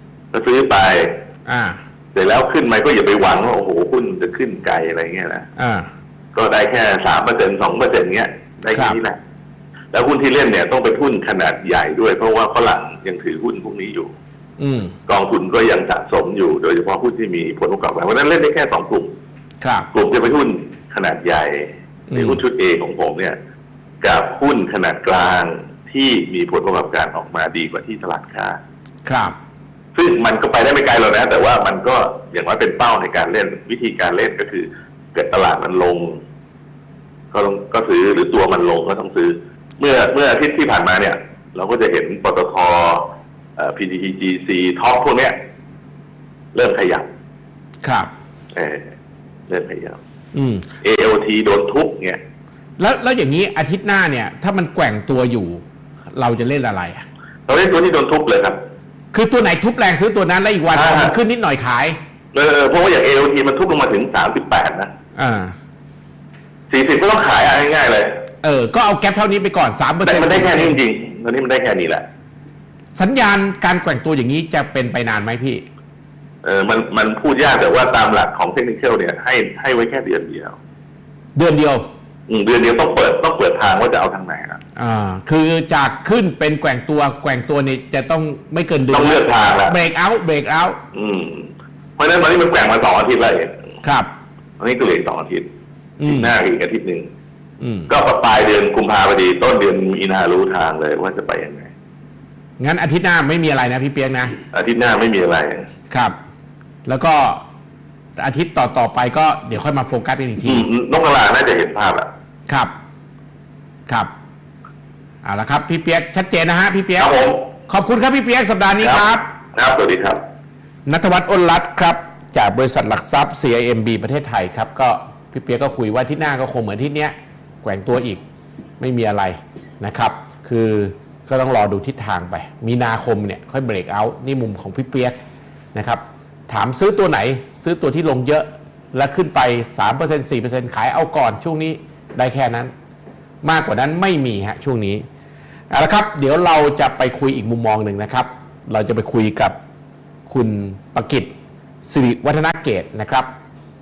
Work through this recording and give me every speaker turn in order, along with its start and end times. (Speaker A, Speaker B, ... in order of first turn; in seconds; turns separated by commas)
Speaker A: 0.3-1.2, Speaker B: 1.5-1.8, Speaker A: 2.1-5.5, Speaker B: 5.6-5.9, Speaker A: 6.3-9.2, Speaker B: 8.7-9.0, Speaker A: 9.9-14.1, Speaker B: 14.6-14.9, Speaker A: 15.1-19.1, Speaker B: 19.6-19.9, Speaker A: 19.9-23.4, Speaker B: 22.1-22.4, Speaker A: 24.0-28.6, Speaker B: 29.0-29.3, Speaker A: 29.9-36.2, Speaker A: 37.3-45.4, Speaker A: 46.5-47.1, Speaker B: 47.8-48.1, Speaker A: 48.5-48.9, Speaker A: 49.5-50.0, Speaker B: 50.3-50.6, Speaker A: 50.8-52.2, Speaker B: 52.8-55.6, Speaker B: 56.1-57.0, Speaker A: 57.5-58.6, Speaker B: 59.1-62.0, Speaker A: 60.7-61.1, Speaker A: 62.3-64.9, Speaker B: 65.2-65.5, Speaker A: 66.7-68.2, Speaker B: 68.4-70.8, Speaker A: 70.0-72.1, Speaker B: 72.9-75.6, Speaker A: 76.4-80.6, Speaker B: 81.3-81.8, Speaker A: 82.3-84.6, Speaker B: 84.8-90.8, Speaker A: 88.9-89.8, Speaker A: 90.9-93.6, Speaker B: 93.8-94.1, Speaker A: 94.6-95.5, Speaker B: 96.0-96.3, Speaker A: 96.1-97.1, Speaker B: 97.6-97.9, Speaker A: 97.9-101.7, Speaker B: 102.6-104.4, Speaker A: 104.5-105.7, Speaker B: 105.9-106.1, Speaker B: 106.8-107.4, Speaker B: 108.2-110.7, Speaker A: 110.4-112.1, Speaker B: 115.2-117.1, Speaker A: 117.0-117.4, Speaker B: 117.7-119.2, Speaker A: 118.8-120.2, Speaker B: 120.9-128.2, Speaker B: 128.8-135.2, Speaker B: 135.7-142.7, Speaker B: 143.4-145.0, Speaker B: 145.7-149.5, Speaker B: 150.3-151.3, Speaker B: 151.8-153.3